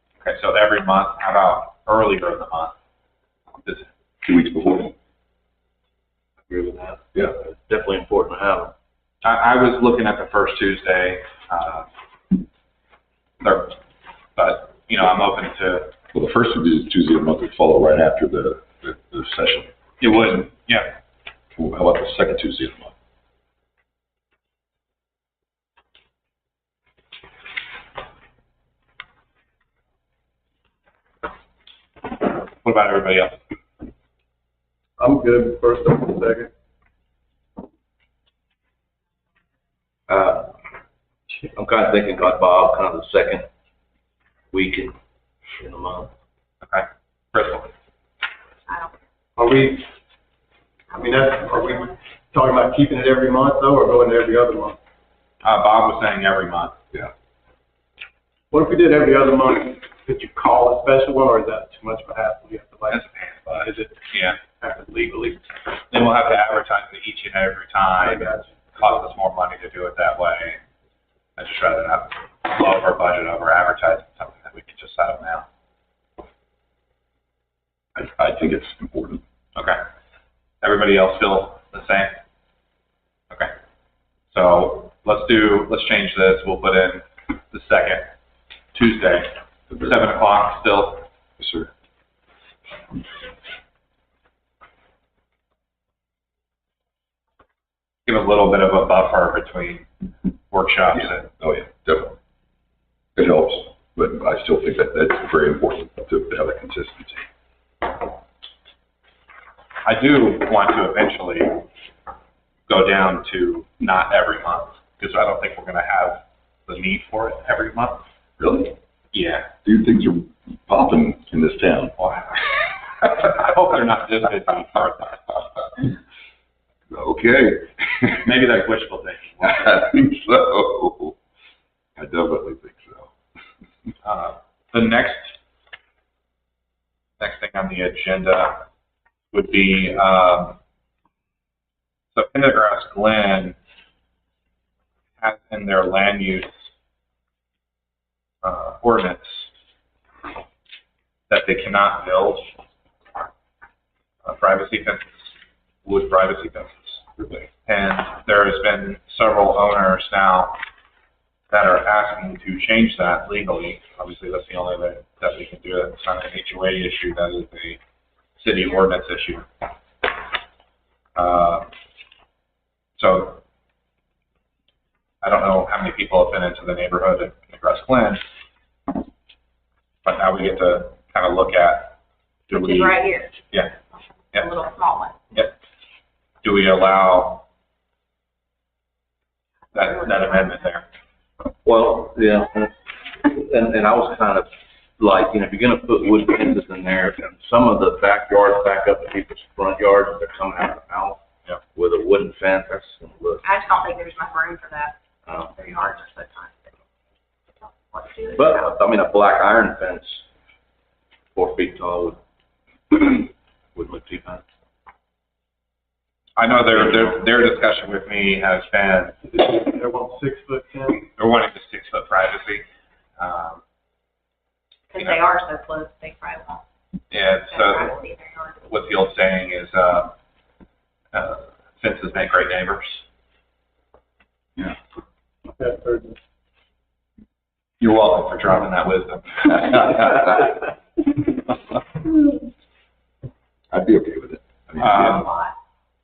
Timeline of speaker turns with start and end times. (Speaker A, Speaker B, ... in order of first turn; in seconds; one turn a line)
Speaker A: 0.2-2.7
Speaker B: 4.2-4.9
Speaker C: 6.5-8.7
Speaker A: 9.2-11.9
Speaker A: 13.4-13.8
Speaker A: 14.3-15.9
Speaker B: 16.1-19.7
Speaker A: 20.0-21.0
Speaker B: 21.5-22.9
Speaker A: 32.2-33.4
Speaker D: 35.0-36.5
Speaker C: 40.1-40.5
Speaker C: 41.5-43.5
Speaker C: 44.5-44.9
Speaker C: 45.6-46.1
Speaker A: 46.6-47.7
Speaker E: 48.7-48.9
Speaker D: 49.4-49.8
Speaker E: 50.9-52.0
Speaker D: 50.9-54.8
Speaker A: 55.4-56.7
Speaker D: 58.5-63.0
Speaker A: 62.9-64.4
Speaker D: 63.5-64.1
Speaker D: 64.6-65.4
Speaker A: 65.9-70.6
Speaker D: 68.0-68.9
Speaker A: 71.4-75.5
Speaker B: 77.9-79.2
Speaker A: 79.5-79.8
Speaker A: 80.6-82.1
Speaker A: 84.3-88.1
Speaker A: 88.7-89.3
Speaker A: 89.8-91.0
Speaker B: 91.4-91.7
Speaker A: 98.0-99.9
Speaker A: 100.5-101.3
Speaker B: 100.9-102.2
Speaker B: 103.2-107.2
Speaker A: 109.8-111.6
Speaker A: 112.7-118.0
Speaker B: 118.4-118.7
Speaker A: 119.1-119.5
Speaker B: 119.6-121.9
Speaker A: 122.0-125.4
Speaker B: 126.9-128.2
Speaker A: 128.2-129.8
Speaker B: 129.4-131.2
Speaker B: 132.0-133.1
Speaker A: 134.0-135.4
Speaker A: 137.2-138.6
Speaker A: 139.3-140.6
Speaker A: 142.1-143.6
Speaker A: 145.2-146.7
Speaker A: 148.4-149.5
Speaker A: 151.3-152.5
Speaker A: 154.2-157.1
Speaker B: 157.2-157.4
Speaker A: 157.6-160.6
Speaker A: 161.5-167.8
Speaker A: 168.3-169.5
Speaker A: 171.2-171.7
Speaker A: 173.0-173.4
Speaker A: 175.2-178.2
Speaker A: 180.0-181.9
Speaker A: 182.5-183.0
Speaker E: 182.5-183.4
Speaker E: 184.3-185.2
Speaker A: 186.4-187.4
Speaker A: 189.7-190.8
Speaker E: 189.8-190.5
Speaker C: 191.6-201.2
Speaker C: 201.7-203.5
Speaker E: 203.4-206.7
Speaker C: 205.3-205.5
Speaker E: 207.6-208.7
Speaker C: 208.4-210.2
Speaker C: 211.3-212.2
Speaker C: 212.9-214.4
Speaker A: 216.4-219.2
Speaker C: 216.7-217.2
Speaker D: 219.3-221.1
Speaker A: 221.2-222.6
Speaker A: 223.2-223.6
Speaker E: 224.9-226.6
Speaker A: 227.1-228.0
Speaker E: 227.4-228.7
Speaker A: 228.7-230.1
Speaker A: 231.1-233.0
Speaker D: 235.6-236.2
Speaker A: 237.8-240.6
Speaker B: 243.7-245.3
Speaker A: 244.8-245.2
Speaker E: 244.8-245.5